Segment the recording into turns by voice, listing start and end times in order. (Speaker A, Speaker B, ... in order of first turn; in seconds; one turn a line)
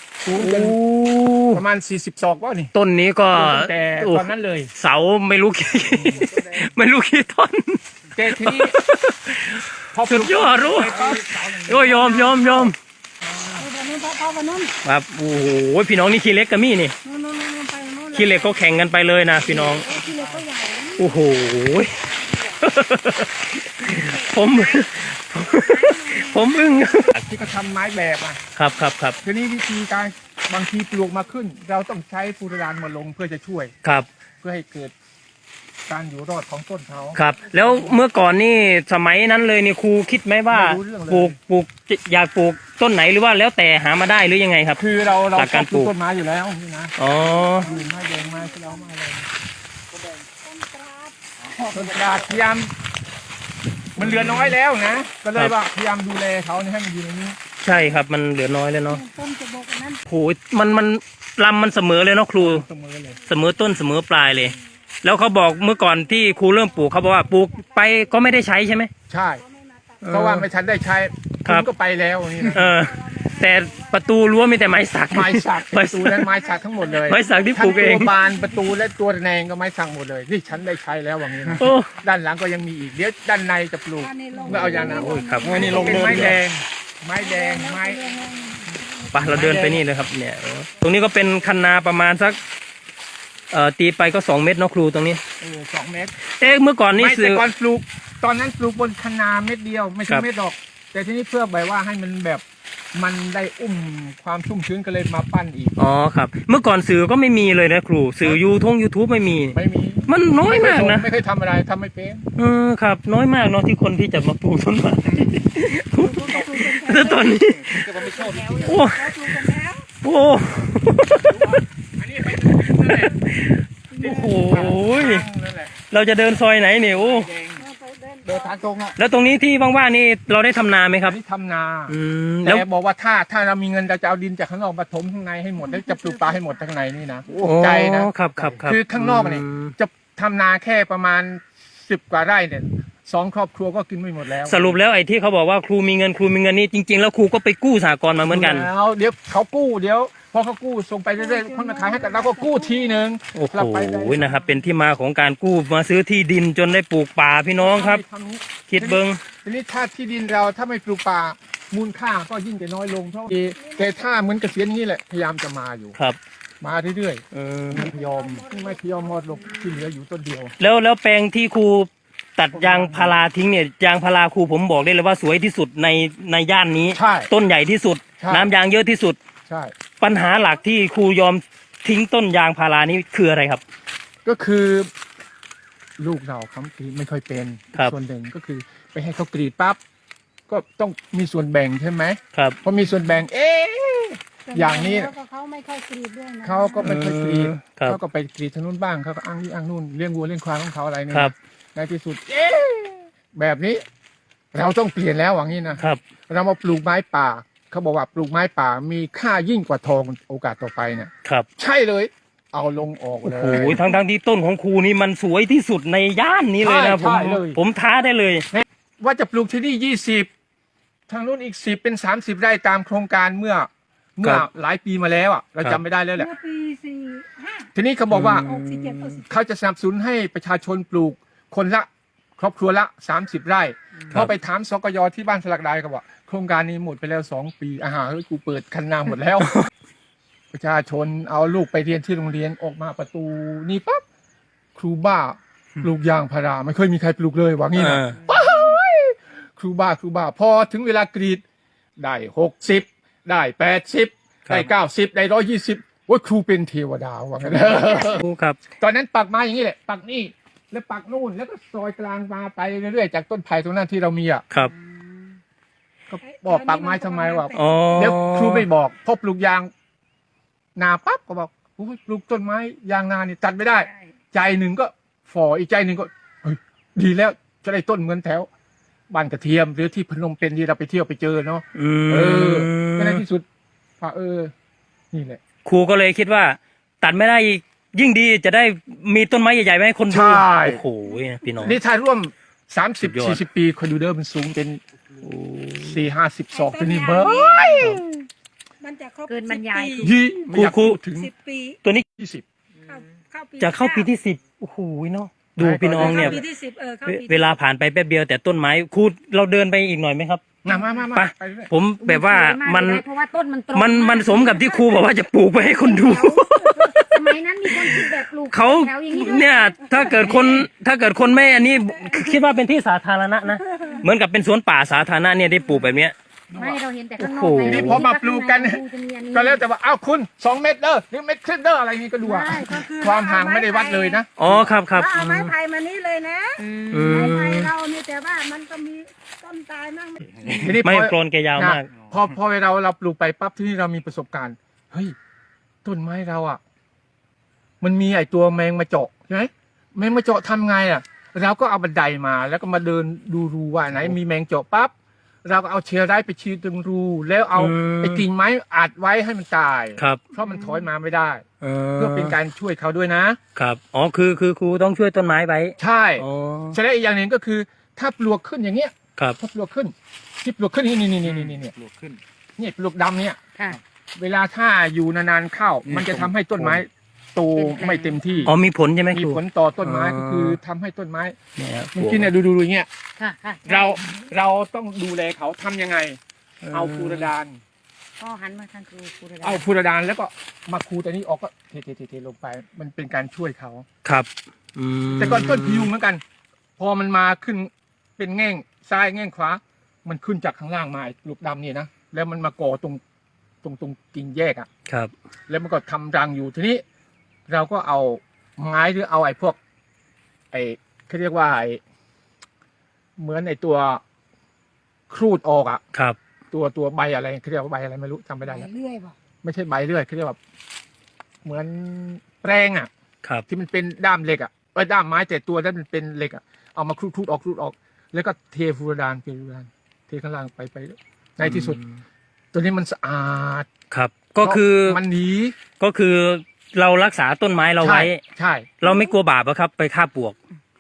Speaker A: 0.2-0.8
Speaker B: 0.4-1.6
Speaker A: 1.5-2.7
Speaker B: 2.7-12.8
Speaker A: 3.3-4.7
Speaker A: 5.9-6.6
Speaker A: 8.1-8.8
Speaker A: 9.9-13.7
Speaker C: 13.6-14.7
Speaker B: 14.8-16.9
Speaker C: 17.0-18.9
Speaker B: 18.1-19.9
Speaker C: 19.4-21.1
Speaker A: 19.9-20.4
Speaker B: 21.0-27.2
Speaker C: 23.9-24.8
Speaker C: 25.5-26.4
Speaker A: 27.1-28.4
Speaker B: 28.6-29.2
Speaker A: 29.2-33.7
Speaker A: 34.4-34.9
Speaker A: 35.9-37.9
Speaker B: 37.1-44.8
Speaker A: 40.5-41.4
Speaker A: 44.8-47.0
Speaker B: 45.3-45.9
Speaker B: 47.0-47.8
Speaker C: 47.3-48.8
Speaker A: 47.6-49.3
Speaker C: 50.4-52.2
Speaker A: 51.7-52.7
Speaker A: 54.0-57.4
Speaker B: 54.0-54.6
Speaker B: 57.6-59.0
Speaker C: 57.7-58.0
Speaker C: 58.9-60.0
Speaker B: 60.1-62.6
Speaker A: 62.4-63.2
Speaker B: 63.3-68.9
Speaker C: 65.2-68.6
Speaker A: 69.1-69.4
Speaker C: 69.4-71.1
Speaker B: 70.0-70.5
Speaker A: 70.1-72.7
Speaker B: 72.4-76.3
Speaker C: 72.5-74.8
Speaker A: 75.1-88.0
Speaker C: 76.2-78.8
Speaker B: 77.0-78.1
Speaker B: 81.5-81.9
Speaker C: 84.0-86.2
Speaker B: 84.5-86.4
Speaker C: 87.2-89.7
Speaker B: 89.1-92.4
Speaker A: 89.3-89.8
Speaker B: 93.5-95.2
Speaker A: 95.4-96.1
Speaker B: 96.4-97.5
Speaker A: 97.0-102.4
Speaker A: 103.0-105.8
Speaker B: 105.8-111.1
Speaker A: 109.5-112.3
Speaker B: 112.4-121.6
Speaker C: 115.9-119.9
Speaker A: 118.1-118.5
Speaker A: 121.2-123.3
Speaker B: 122.3-125.3
Speaker C: 123.9-124.7
Speaker A: 124.0-125.7
Speaker B: 125.8-127.3
Speaker A: 126.9-127.7
Speaker C: 127.6-128.9
Speaker B: 129.0-131.2
Speaker A: 131.0-138.1
Speaker B: 131.9-132.7
Speaker C: 135.7-136.6
Speaker B: 137.3-139.7
Speaker A: 138.6-144.8
Speaker B: 144.3-148.7
Speaker A: 148.2-154.4
Speaker C: 151.2-153.0
Speaker B: 153.3-158.0
Speaker A: 157.6-166.0
Speaker B: 158.7-159.2
Speaker C: 163.6-164.2
Speaker A: 166.6-170.5
Speaker B: 167.3-167.9
Speaker C: 167.7-169.7
Speaker B: 170.6-179.2
Speaker A: 172.5-173.2
Speaker A: 176.9-177.3
Speaker A: 178.2-178.5
Speaker A: 179.5-179.7
Speaker B: 180.0-183.6
Speaker A: 184.2-184.9
Speaker A: 186.0-189.8
Speaker A: 190.5-195.1
Speaker B: 192.3-192.6
Speaker C: 194.5-196.9
Speaker A: 196.4-203.8
Speaker B: 196.8-198.0
Speaker A: 204.5-213.8
Speaker B: 213.2-218.5
Speaker A: 216.6-217.6
Speaker A: 218.5-220.3
Speaker A: 221.1-226.3
Speaker C: 226.2-227.7
Speaker A: 227.7-228.5
Speaker B: 228.1-229.2
Speaker C: 228.3-229.2
Speaker A: 229.3-239.6
Speaker A: 240.5-244.0
Speaker A: 244.8-251.4
Speaker B: 247.8-248.3
Speaker A: 252.0-264.5
Speaker B: 257.5-258.6
Speaker A: 266.1-269.7
Speaker C: 266.3-267.9
Speaker B: 267.6-268.7
Speaker A: 270.8-278.5
Speaker A: 279.1-283.4
Speaker B: 281.8-283.2
Speaker A: 284.0-284.5
Speaker A: 285.1-285.4
Speaker B: 285.6-291.8
Speaker A: 290.1-290.8
Speaker A: 291.6-294.8
Speaker B: 293.0-293.4
Speaker B: 295.2-296.0
Speaker A: 295.8-298.0
Speaker C: 296.5-297.7
Speaker B: 297.7-298.0
Speaker C: 298.8-300.2
Speaker D: 299.3-300.1
Speaker A: 300.0-301.3
Speaker B: 300.5-301.0
Speaker C: 301.1-301.8
Speaker A: 302.2-302.4
Speaker C: 302.9-304.1
Speaker B: 303.6-306.4
Speaker A: 305.6-306.4
Speaker C: 306.0-307.5
Speaker B: 307.0-310.4
Speaker A: 310.6-311.7
Speaker B: 311.1-313.0
Speaker D: 312.0-315.0
Speaker B: 313.7-326.1
Speaker D: 315.6-319.7
Speaker C: 319.9-320.3
Speaker D: 326.5-329.6
Speaker B: 327.2-328.0
Speaker A: 327.6-334.6
Speaker C: 332.2-334.2
Speaker B: 334.4-335.5
Speaker C: 334.9-340.7
Speaker D: 336.6-337.4
Speaker B: 336.9-337.7
Speaker A: 340.5-345.1
Speaker B: 340.8-341.9
Speaker A: 345.9-346.6
Speaker A: 347.8-354.9
Speaker A: 355.4-361.4
Speaker B: 357.6-358.3
Speaker B: 361.6-362.4
Speaker A: 362.0-363.4
Speaker B: 363.6-366.8
Speaker A: 365.8-371.7
Speaker A: 372.6-373.4
Speaker A: 374.2-378.5
Speaker B: 376.0-376.8
Speaker D: 377.6-378.4
Speaker B: 378.4-380.6
Speaker A: 379.1-381.4
Speaker B: 381.6-382.3
Speaker A: 381.9-382.9
Speaker D: 383.2-384.0
Speaker A: 383.7-386.2
Speaker B: 386.6-387.3
Speaker A: 386.7-387.6
Speaker D: 388.2-389.6
Speaker A: 389.4-393.9
Speaker B: 394.0-395.9
Speaker A: 395.2-396.2
Speaker A: 396.8-403.0
Speaker A: 403.6-404.7
Speaker A: 405.5-406.8
Speaker A: 407.5-409.6
Speaker A: 410.5-411.8
Speaker A: 413.2-414.0
Speaker A: 415.1-415.8
Speaker A: 416.5-418.7
Speaker C: 418.4-419.1
Speaker A: 419.4-420.4
Speaker A: 421.4-422.9
Speaker A: 423.5-431.8
Speaker B: 431.4-432.0
Speaker A: 432.5-433.7
Speaker B: 433.9-435.0
Speaker A: 434.4-435.6
Speaker B: 435.8-438.2
Speaker A: 437.8-438.7
Speaker B: 438.8-440.4